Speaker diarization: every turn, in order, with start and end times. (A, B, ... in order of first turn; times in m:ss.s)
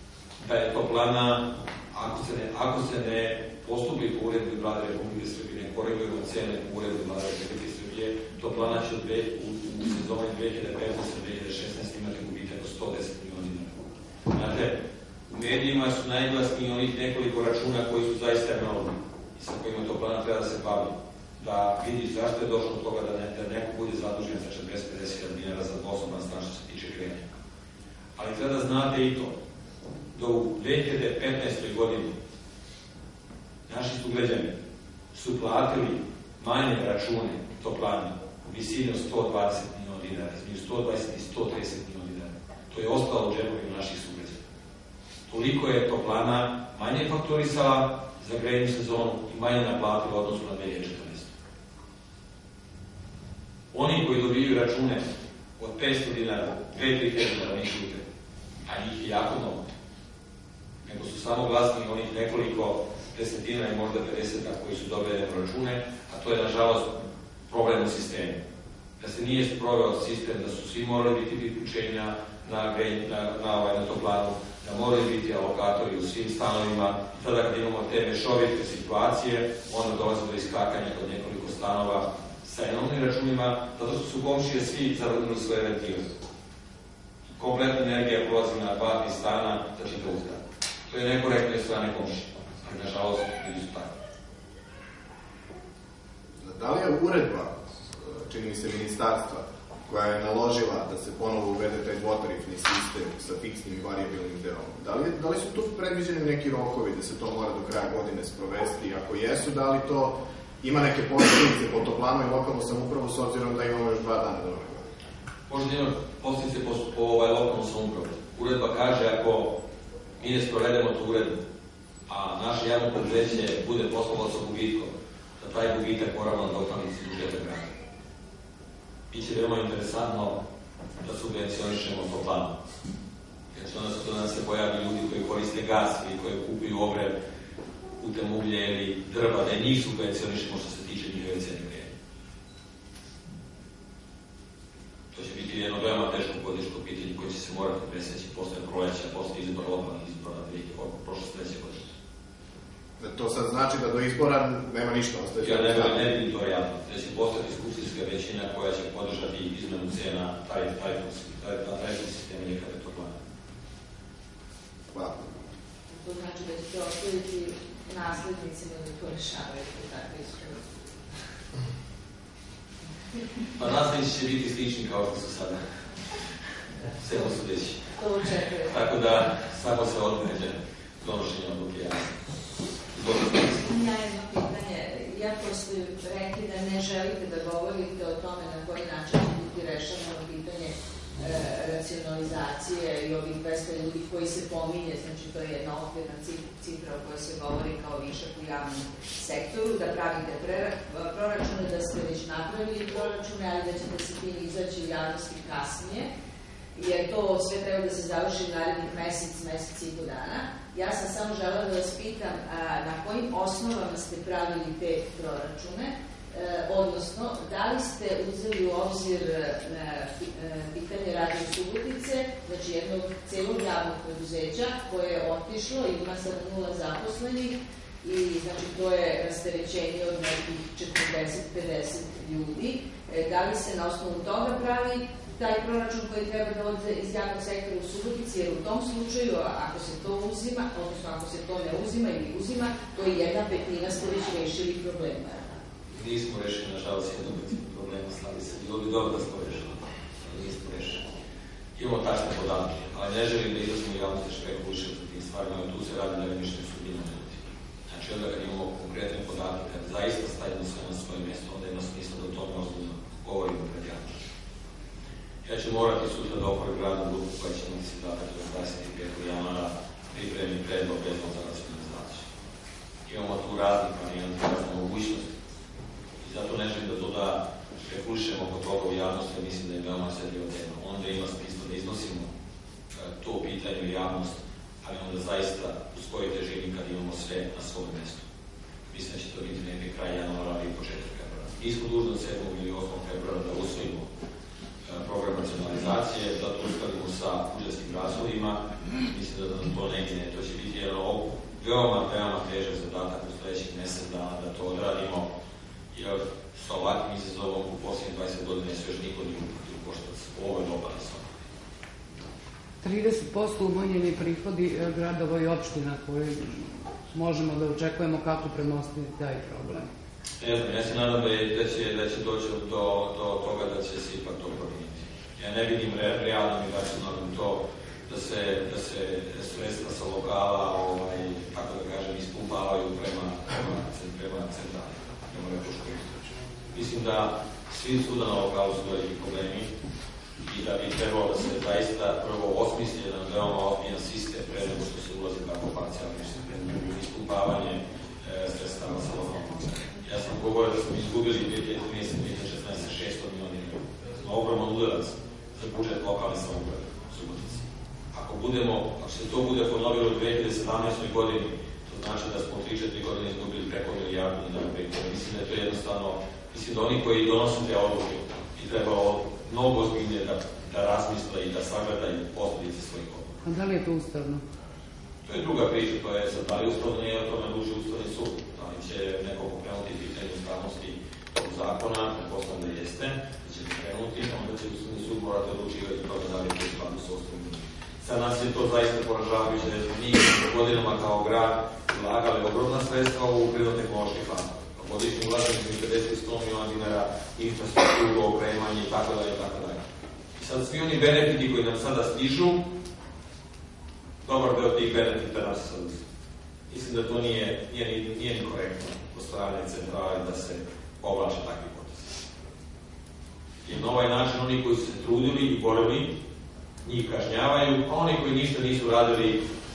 0:00.4-0:27.3 A
0:28.2-0:29.4 A
0:30.1-0:32.1 A
0:33.7-0:34.6 A
0:35.1-0:44.4 A
0:45.3-0:51.3 A
0:53.7-0:58.0 A
0:58.6-0:59.6 A
1:00.8-1:08.4 A
1:09.0-1:26.1 A
1:27.4-1:33.9 A
1:36.4-1:54.9 B
1:55.5-1:59.6 A
2:00.2-2:01.4 A
2:02.1-2:07.7 A
2:09.1-2:10.4 A
2:11.0-2:12.6 A
2:13.5-2:17.2 A
2:18.0-2:21.9 A
2:25.1-2:31.9 A
2:33.0-2:36.0 B
2:35.4-2:43.2 A
2:44.9-2:45.2 B
2:45.9-2:50.7 C
2:53.6-2:55.6 A
2:56.9-2:57.9 A
2:57.9-2:58.7 C
2:58.7-3:02.2 A
3:02.9-3:03.7 A
3:03.6-3:26.1 C
3:26.7-4:05.5 C
4:05.9-4:11.0 A
4:11.8-4:24.2 A
4:25.4-4:32.3 A
4:33.1-4:35.3 A
4:36.2-4:42.3 A
4:42.9-4:48.3 A
4:48.9-4:54.1 A
4:54.8-5:05.3 A
5:05.9-5:11.3 A
5:12.8-5:19.9 D
5:20.4-5:36.2 A
5:36.7-5:39.7 A
5:40.4-6:13.4 A
6:13.4-6:14.4 D
6:15.2-6:39.8 A
6:40.4-6:42.7 A
6:44.2-6:46.0 A
6:46.7-6:52.1 A
6:53.6-6:56.2 A
6:56.8-6:59.5 A